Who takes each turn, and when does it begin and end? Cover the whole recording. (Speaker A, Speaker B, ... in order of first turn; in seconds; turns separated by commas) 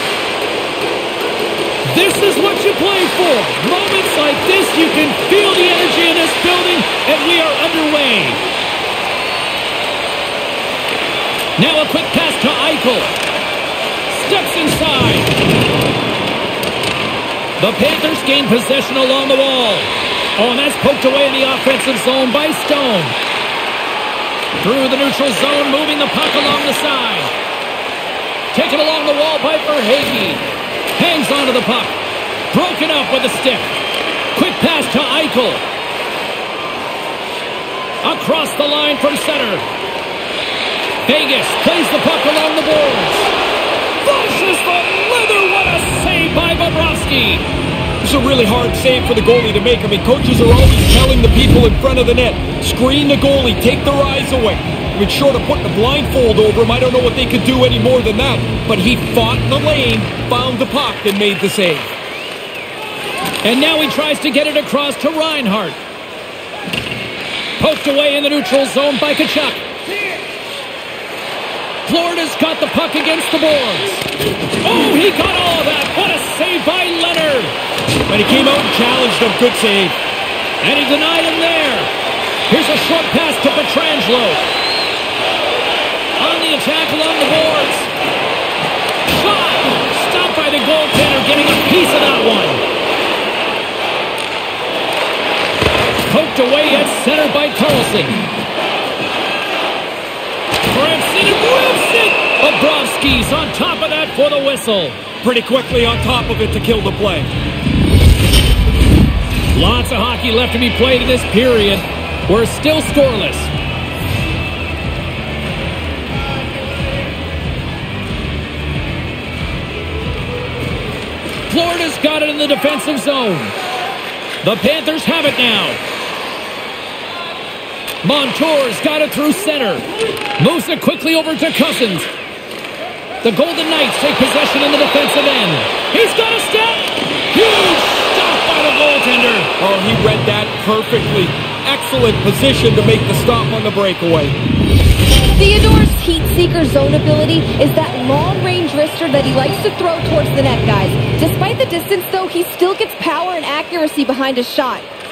Speaker A: 1.8-8.4, Speaker A: 11.6-13.1, Speaker A: 14.1-15.3, Speaker A: 17.6-23.1, Speaker A: 24.6-27.3, Speaker A: 28.5-30.4, Speaker A: 30.9-31.9, Speaker A: 32.5-33.8, Speaker A: 34.3-35.6, Speaker A: 38.0-39.6, Speaker A: 41.0-43.3, Speaker A: 44.0-47.5, Speaker B: 48.0-61.9, Speaker A: 63.4-65.8, Speaker A: 67.6-69.6, Speaker A: 71.9-74.1, Speaker A: 74.6-77.5, Speaker B: 78.1-80.0, Speaker A: 80.6-81.9, Speaker A: 82.5-84.4, Speaker A: 86.2-87.9, Speaker A: 89.1-92.6, Speaker A: 96.0-98.2, Speaker A: 100.7-105.0, Speaker B: 105.2-107.3, Speaker A: 109.5-113.5, Speaker A: 121.5-123.5, Speaker A: 124.4-125.8, Speaker A: 128.0-132.1, Speaker A: 133.2-139.5, Speaker B: 139.6-144.4, Speaker C: 145.3-154.8